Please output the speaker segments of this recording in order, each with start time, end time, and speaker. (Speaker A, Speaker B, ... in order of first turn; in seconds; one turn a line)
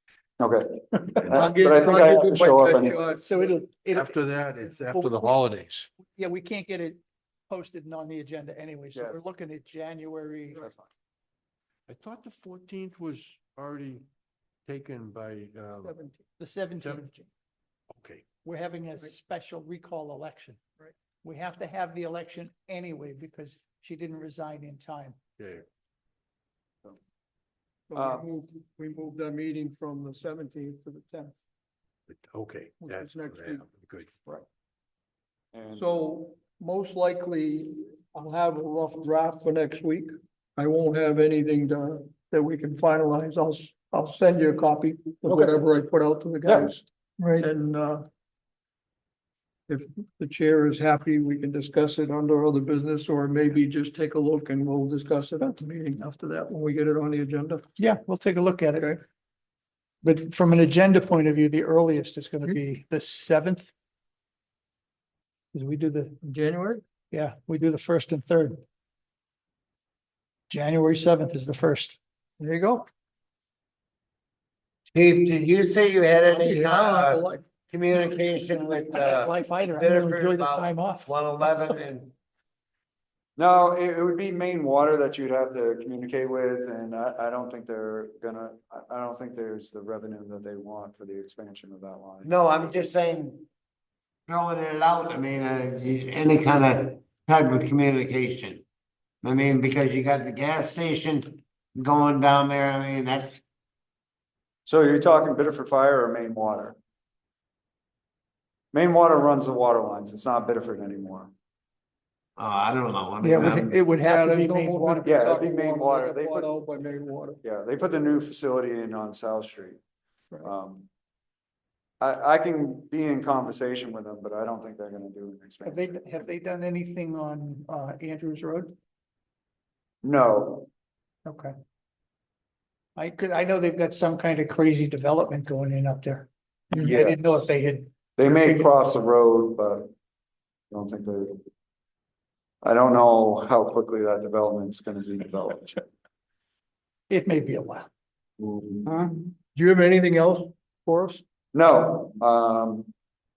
Speaker A: 0.4-3.0
Speaker B: 1.2-4.2
Speaker C: 1.3-3.5
Speaker D: 3.9-5.9
Speaker B: 4.9-5.3
Speaker B: 6.0-10.6
Speaker A: 10.6-10.9
Speaker D: 11.9-14.1
Speaker D: 14.7-15.9
Speaker C: 15.8-16.2
Speaker B: 16.4-17.3
Speaker D: 16.8-17.1
Speaker D: 17.9-18.2
Speaker B: 18.4-20.6
Speaker B: 21.2-25.1
Speaker D: 25.4-25.6
Speaker C: 27.9-31.4
Speaker A: 27.9-28.2
Speaker D: 32.1-34.1
Speaker C: 32.8-33.6
Speaker A: 35.5-35.9
Speaker C: 35.8-46.8
Speaker B: 45.3-45.5
Speaker B: 46.4-47.5
Speaker C: 47.4-48.0
Speaker C: 49.7-57.6
Speaker B: 57.8-59.0
Speaker B: 60.0-63.7
Speaker B: 65.5-66.2
Speaker C: 66.2-66.8
Speaker B: 67.1-68.6
Speaker B: 70.5-72.0
Speaker C: 72.4-72.8
Speaker E: 74.9-82.1
Speaker C: 76.3-77.4
Speaker B: 78.8-81.1
Speaker A: 83.4-92.3
Speaker E: 92.2-93.5
Speaker E: 94.3-98.6
Speaker E: 99.2-103.4
Speaker A: 104.7-106.8
Speaker A: 108.7-111.3
Speaker E: 112.4-113.7
Speaker B: 113.2-115.1
Speaker C: 114.0-117.4
Speaker A: 115.0-116.6
Speaker A: 117.4-119.8
Speaker A: 120.4-120.9
Speaker A: 122.0-126.0
Speaker B: 125.6-128.7
Speaker A: 130.0-130.7
Speaker B: 131.2-131.5
Speaker B: 132.9-137.9
Speaker A: 136.8-137.2
Speaker A: 138.2-139.9
Speaker A: 140.7-141.4
Speaker A: 142.6-145.8
Speaker B: 147.1-147.9
Speaker A: 148.4-149.2
Speaker C: 149.5-151.2
Speaker A: 151.5-152.9